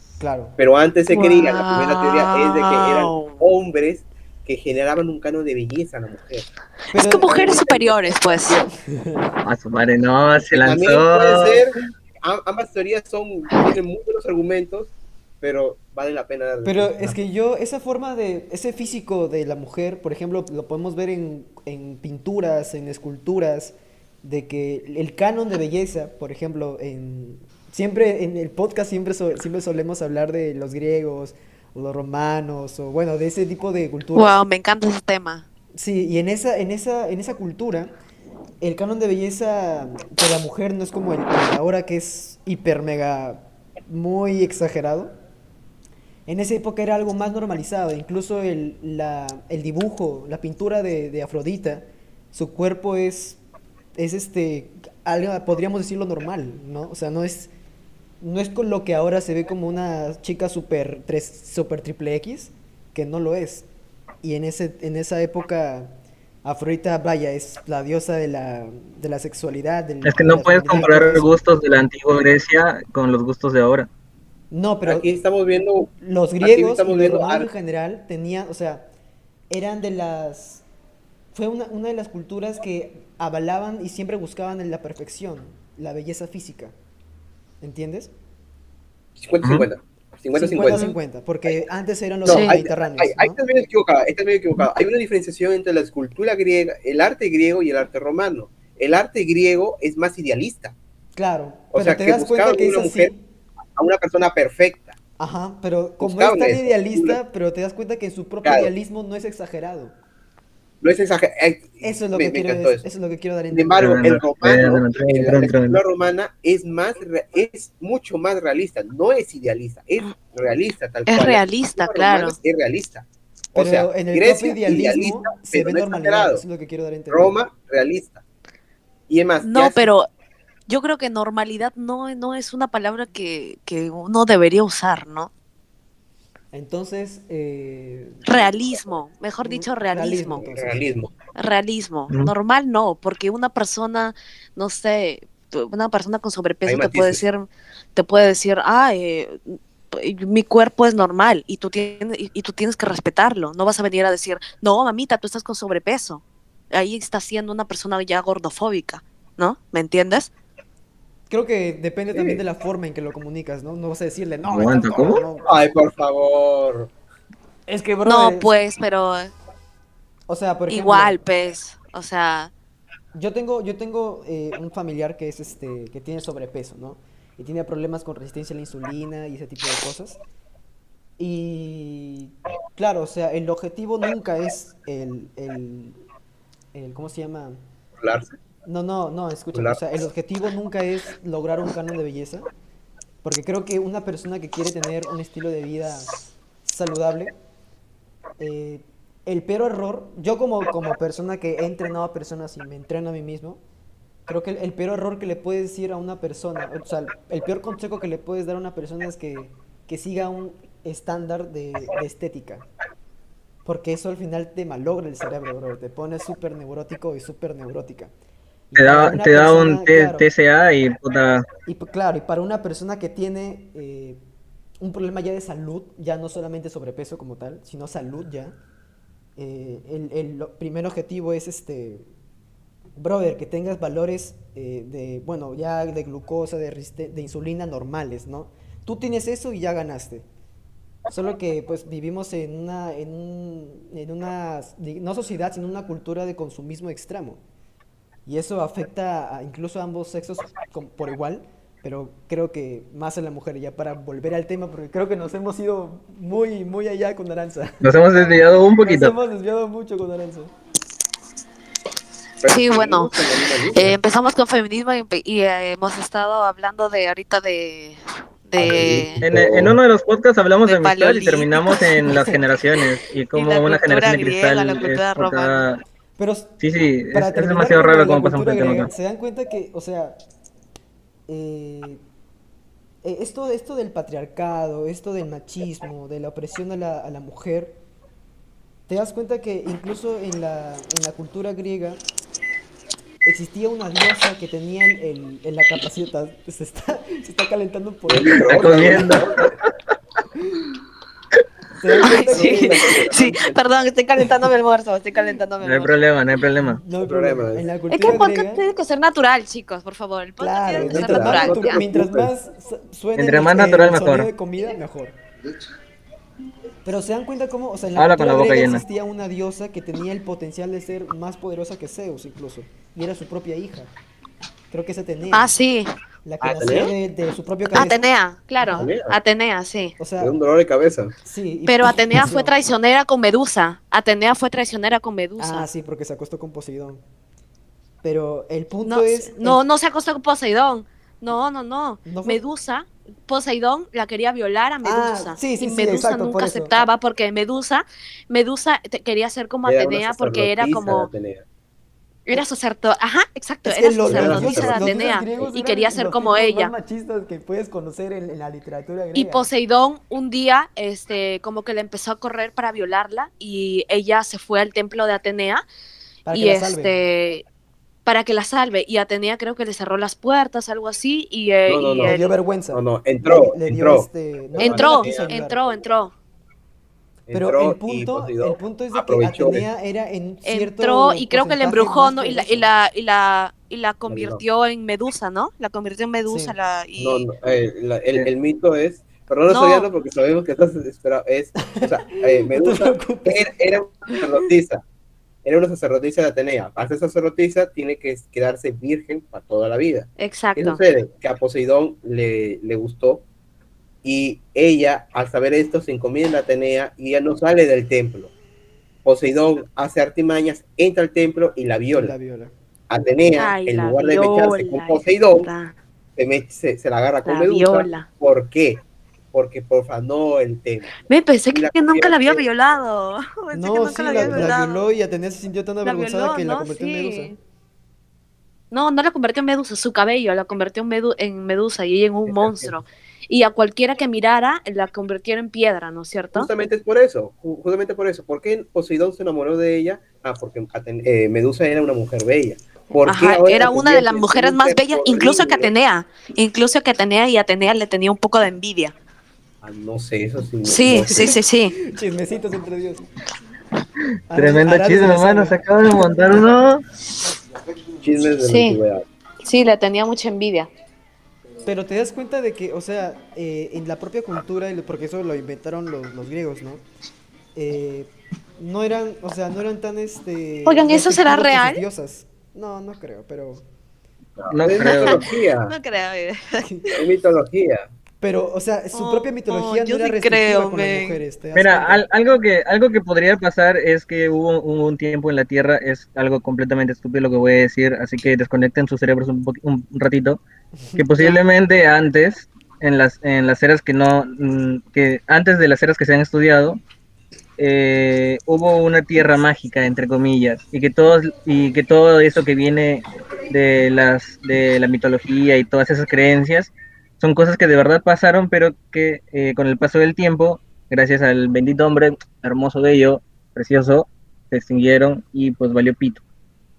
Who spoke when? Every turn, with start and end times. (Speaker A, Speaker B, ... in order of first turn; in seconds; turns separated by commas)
Speaker A: 0.2-0.6, Speaker B: 0.6-6.5, Speaker C: 1.1-3.4, Speaker A: 6.9-7.4, Speaker C: 7.0-8.6, Speaker B: 7.1-8.7, Speaker A: 8.9-9.3, Speaker D: 9.4-11.6, Speaker B: 10.5-17.2, Speaker A: 16.6-34.4, Speaker C: 34.1-35.5, Speaker A: 35.8-37.9, Speaker A: 38.6-45.1, Speaker A: 46.3-53.4, Speaker A: 54.0-57.5, Speaker A: 58.2-63.6, Speaker A: 64.2-65.9, Speaker A: 66.4-71.3, Speaker D: 70.0-73.9, Speaker A: 74.5-75.1, Speaker B: 74.8-77.5, Speaker A: 76.0-78.9, Speaker A: 79.5-80.6, Speaker A: 81.3-86.7, Speaker A: 87.6-88.1, Speaker B: 89.2-90.9, Speaker D: 89.4-89.7, Speaker A: 90.3-93.4, Speaker B: 92.2-100.8, Speaker C: 92.3-92.5, Speaker A: 101.2-103.2, Speaker B: 101.7-103.1, Speaker B: 103.8-105.0, Speaker A: 105.2-109.9, Speaker B: 106.0-107.2, Speaker B: 108.4-108.7, Speaker B: 110.8-112.8, Speaker A: 111.8-113.8, Speaker B: 113.5-126.4, Speaker D: 113.8-115.8, Speaker C: 121.1-122.3, Speaker A: 123.5-127.4, Speaker B: 127.1-128.2, Speaker B: 129.1-129.9, Speaker C: 129.4-130.1, Speaker C: 130.7-135.3, Speaker A: 136.5-138.3, Speaker C: 138.2-140.4, Speaker A: 139.4-140.8, Speaker B: 140.4-141.1, Speaker C: 141.3-160.3, Speaker B: 146.6-147.2, Speaker A: 161.3-165.5, Speaker B: 162.1-162.4, Speaker D: 164.5-165.2, Speaker B: 165.4-166.9, Speaker A: 167.7-168.5, Speaker C: 168.1-169.3, Speaker A: 170.3-171.2, Speaker C: 170.7-172.5, Speaker A: 173.1-180.2, Speaker A: 181.2-186.0, Speaker A: 186.7-187.6, Speaker B: 188.0-188.3, Speaker A: 188.6-192.5, Speaker B: 189.5-189.8, Speaker A: 193.2-196.1, Speaker A: 196.6-197.3, Speaker A: 198.4-203.6, Speaker A: 204.3-212.7, Speaker A: 213.6-218.1, Speaker A: 218.7-220.3, Speaker D: 218.8-221.4, Speaker A: 221.7-224.2, Speaker A: 224.8-228.5, Speaker A: 229.4-232.0, Speaker A: 233.0-240.2, Speaker A: 241.1-247.4, Speaker A: 248.2-257.8, Speaker D: 257.8-259.1, Speaker A: 258.8-260.5, Speaker B: 262.4-264.0, Speaker C: 262.5-263.1, Speaker C: 263.7-269.2, Speaker B: 268.6-269.8, Speaker D: 269.2-275.8, Speaker C: 270.6-272.0, Speaker A: 272.1-272.4, Speaker C: 273.3-275.6, Speaker A: 276.2-276.5, Speaker D: 276.6-278.9, Speaker A: 277.1-280.2, Speaker A: 281.3-282.0, Speaker A: 283.0-287.8, Speaker A: 288.9-292.0, Speaker A: 293.2-299.1, Speaker B: 298.1-299.5, Speaker D: 298.4-299.5, Speaker A: 300.4-300.8, Speaker A: 301.8-302.9, Speaker C: 302.0-305.9, Speaker B: 302.2-303.6, Speaker D: 305.6-306.8, Speaker A: 306.6-308.6, Speaker B: 307.0-307.6, Speaker C: 307.9-311.8, Speaker A: 310.4-315.2, Speaker B: 310.8-312.3, Speaker D: 313.1-314.3, Speaker A: 316.8-323.9, Speaker D: 317.9-318.8, Speaker A: 324.7-325.5, Speaker C: 325.3-325.9, Speaker A: 326.2-328.0, Speaker B: 326.4-326.9, Speaker C: 327.7-329.9, Speaker A: 328.6-328.9, Speaker B: 328.7-329.2, Speaker A: 330.0-330.4, Speaker B: 330.2-331.1, Speaker A: 331.2-332.6, Speaker C: 331.7-335.7, Speaker A: 335.4-337.0, Speaker A: 338.0-339.6, Speaker C: 338.8-351.1, Speaker A: 342.0-342.4, Speaker A: 344.8-346.8, Speaker B: 349.6-351.4, Speaker C: 352.3-356.7, Speaker A: 353.6-359.5, Speaker B: 354.1-355.4, Speaker C: 359.1-365.6, Speaker A: 366.2-366.9, Speaker C: 366.3-367.4, Speaker C: 368.1-372.3, Speaker B: 371.7-372.2, Speaker A: 372.1-375.6, Speaker B: 372.7-375.4, Speaker C: 374.6-376.1, Speaker B: 377.3-379.6, Speaker A: 377.3-382.7, Speaker C: 380.4-387.2, Speaker B: 384.1-384.4, Speaker A: 386.3-386.6, Speaker B: 387.0-394.8, Speaker C: 389.5-389.9, Speaker A: 391.6-393.5, Speaker B: 395.4-403.2, Speaker C: 400.2-400.8, Speaker B: 404.0-408.3, Speaker B: 409.0-412.1, Speaker A: 411.9-412.5, Speaker B: 412.9-415.5, Speaker C: 413.4-415.7, Speaker B: 416.2-421.0, Speaker C: 417.2-418.1, Speaker C: 421.1-424.8, Speaker B: 421.5-422.4, Speaker A: 423.5-427.3, Speaker B: 424.1-424.6, Speaker C: 425.8-427.4, Speaker C: 428.7-436.5, Speaker B: 432.2-432.7, Speaker B: 436.3-445.7, Speaker C: 443.0-448.9, Speaker B: 449.6-451.4, Speaker C: 450.6-451.7, Speaker A: 451.8-453.1, Speaker A: 454.3-455.6, Speaker D: 454.3-456.8, Speaker B: 458.0-459.0, Speaker C: 458.4-458.8, Speaker C: 459.4-460.7, Speaker A: 461.6-466.8, Speaker A: 467.5-473.6, Speaker C: 470.6-471.8, Speaker B: 474.4-475.7, Speaker D: 474.5-475.3, Speaker C: 474.8-476.7, Speaker B: 476.9-477.9, Speaker A: 478.2-482.0, Speaker C: 478.9-481.2, Speaker D: 481.5-490.4, Speaker D: 490.9-496.8, Speaker D: 497.6-516.2